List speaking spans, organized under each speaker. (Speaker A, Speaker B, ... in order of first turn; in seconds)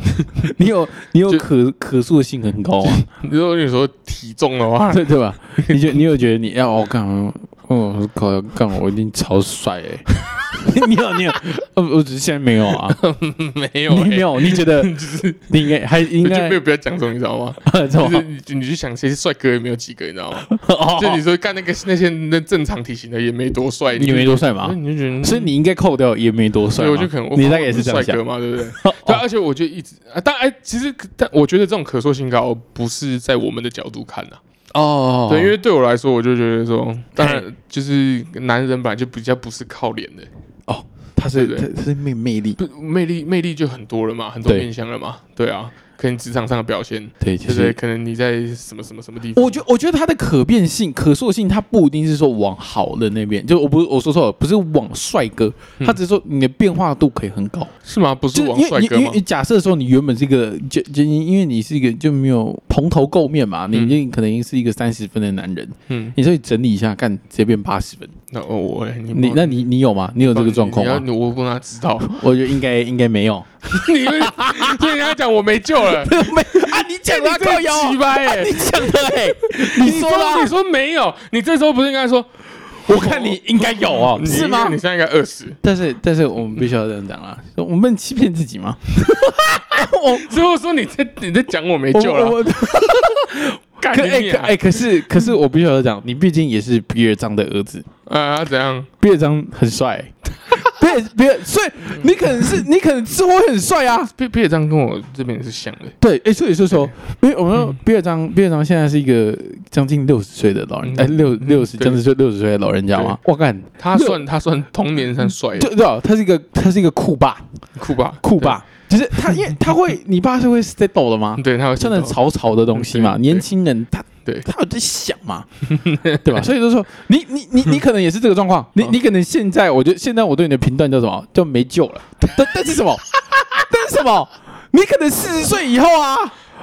Speaker A: 0.4-3.0, 4.9-13.0, 13.9-14.9, 15.5-16.6, 17.6-18.2, 20.5-21.2, 23.9-29.2, 34.7-35.5, 37.2-37.4, 40.7-42.6, 47.2-47.8, 49.3-57.7, 58.3-68.1, 69.1-71.0, 72.0-74.9, 75.8-80.5, 82.8-84.8, 85.6-90.3, 91.9-97.8, 99.0-104.1, 106.0-114.2, 115.5-117.4, 118.2-125.5, 126.1-136.4
Speaker B: 2.9-6.0, 12.7-25.5, 26.7-34.4, 35.2-40.3, 41.3-41.7, 42.6-49.6, 57.8-59.2, 63.7-64.0, 65.9-66.1, 68.3-69.7, 70.2-72.2, 73.7-85.6, 89.6-93.2, 93.8-95.3, 98.0-98.9, 102.0-102.5, 104.1-105.9, 110.8-112.0, 113.8-115.7, 117.8-118.6, 121.3-122.2, 122.7-123.4, 125.7-126.4